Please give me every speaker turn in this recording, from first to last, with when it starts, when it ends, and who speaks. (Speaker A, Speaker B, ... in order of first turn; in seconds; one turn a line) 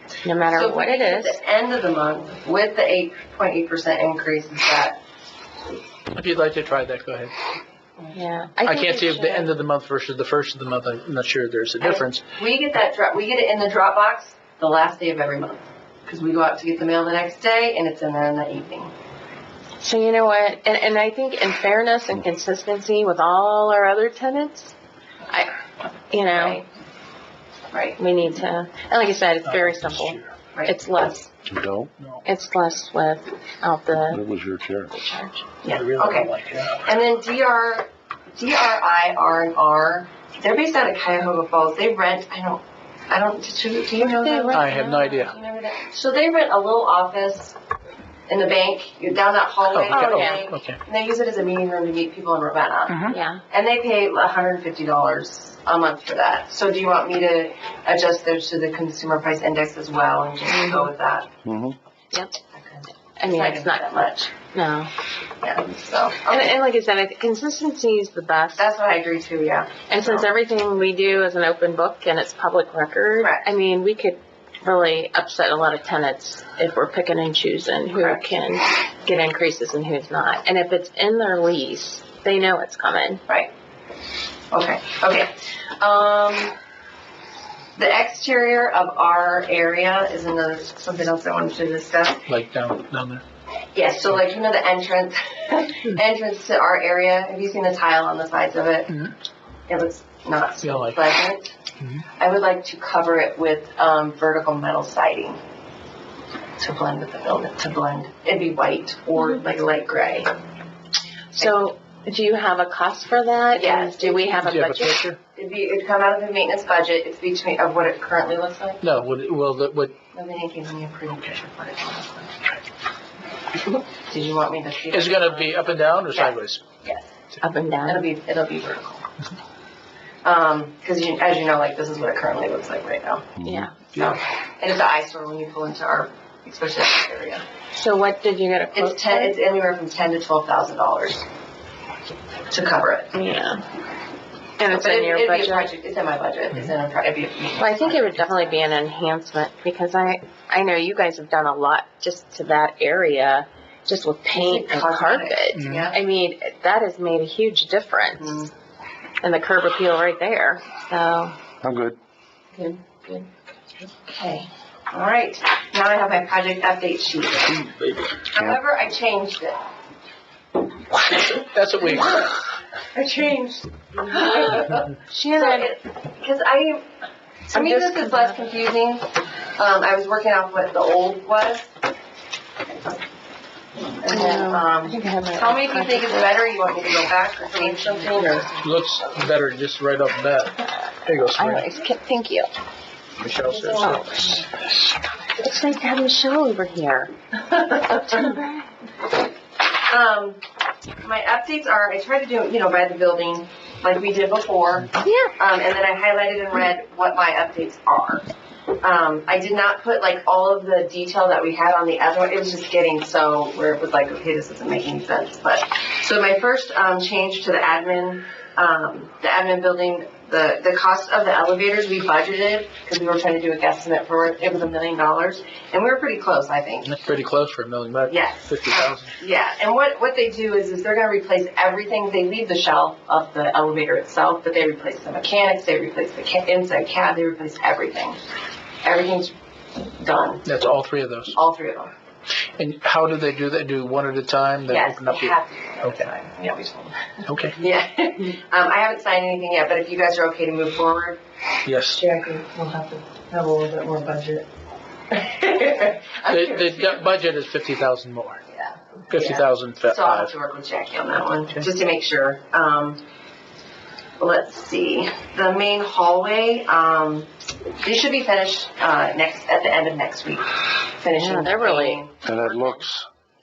Speaker A: 0.2-1.4
Speaker B: 0.5-5.0
Speaker C: 6.1-7.3
Speaker A: 8.1-9.5
Speaker C: 8.6-12.2
Speaker B: 11.8-18.9
Speaker A: 19.8-24.7
Speaker A: 26.1-26.6
Speaker B: 26.2-26.7
Speaker B: 27.7-28.0
Speaker A: 28.0-31.3
Speaker C: 29.4-30.3
Speaker D: 31.4-31.9
Speaker C: 32.0-32.2
Speaker A: 32.2-34.2
Speaker D: 34.1-34.9
Speaker A: 34.9-35.4
Speaker B: 35.6-47.6
Speaker C: 35.7-36.8
Speaker A: 44.0-45.3
Speaker C: 44.5-45.3
Speaker B: 48.3-61.3
Speaker C: 49.7-50.8
Speaker A: 49.9-50.4
Speaker C: 52.9-53.1
Speaker A: 53.1-53.4
Speaker A: 60.5-60.9
Speaker D: 61.4-61.8
Speaker A: 62.1-62.4
Speaker B: 62.5-64.3
Speaker A: 63.2-64.9
Speaker B: 65.4-66.5
Speaker A: 66.3-68.7
Speaker B: 68.6-70.3
Speaker A: 69.9-83.2
Speaker B: 73.2-73.5
Speaker B: 78.0-78.2
Speaker B: 84.5-86.5
Speaker B: 87.8-92.3
Speaker C: 92.3-93.2
Speaker B: 93.7-98.9
Speaker C: 98.9-99.1
Speaker B: 99.7-101.5
Speaker C: 100.6-101.2
Speaker C: 101.8-102.0
Speaker B: 102.2-105.4
Speaker B: 106.6-110.3
Speaker A: 111.3-115.0
Speaker B: 113.5-114.5
Speaker C: 114.4-115.2
Speaker B: 115.3-118.8
Speaker C: 118.8-120.0
Speaker B: 120.1-122.4
Speaker B: 123.9-127.1
Speaker C: 124.9-126.6
Speaker A: 127.4-128.1
Speaker B: 127.8-129.0
Speaker B: 130.2-133.3
Speaker D: 133.4-133.7
Speaker A: 133.4-133.8
Speaker B: 133.9-137.4
Speaker A: 137.7-139.4
Speaker B: 138.7-141.2
Speaker B: 142.5-143.1
Speaker A: 143.1-143.6
Speaker A: 144.6-145.7
Speaker B: 144.7-148.6
Speaker A: 147.6-158.5
Speaker B: 154.3-156.0
Speaker C: 155.5-155.9
Speaker B: 158.2-158.5
Speaker A: 159.2-161.3
Speaker D: 161.6-162.0
Speaker A: 162.6-163.2
Speaker A: 164.1-164.4
Speaker B: 164.9-167.7
Speaker B: 168.3-169.6
Speaker C: 170.9-172.4
Speaker B: 172.9-176.8
Speaker A: 175.1-175.7
Speaker B: 177.5-181.7
Speaker A: 177.5-178.4
Speaker B: 184.0-188.7
Speaker A: 184.1-186.5
Speaker A: 187.4-188.5
Speaker C: 188.6-191.7
Speaker A: 191.3-192.5
Speaker C: 193.2-194.0
Speaker B: 193.4-194.4
Speaker A: 193.8-194.5
Speaker A: 195.4-197.1
Speaker B: 197.5-198.3
Speaker A: 197.9-198.7
Speaker B: 199.7-200.4
Speaker B: 201.0-208.2
Speaker A: 205.0-205.3
Speaker B: 208.8-226.9
Speaker C: 226.8-229.1
Speaker B: 228.1-238.2
Speaker B: 238.8-240.4
Speaker C: 240.4-241.3
Speaker B: 241.3-241.9
Speaker C: 242.6-246.1
Speaker B: 244.7-251.2
Speaker C: 247.3-247.6
Speaker C: 251.7-252.0
Speaker B: 251.9-254.5
Speaker B: 255.1-257.1
Speaker C: 256.2-258.4
Speaker B: 258.5-263.0
Speaker C: 259.1-260.3
Speaker B: 264.2-272.8
Speaker A: 271.1-272.0
Speaker D: 272.2-273.1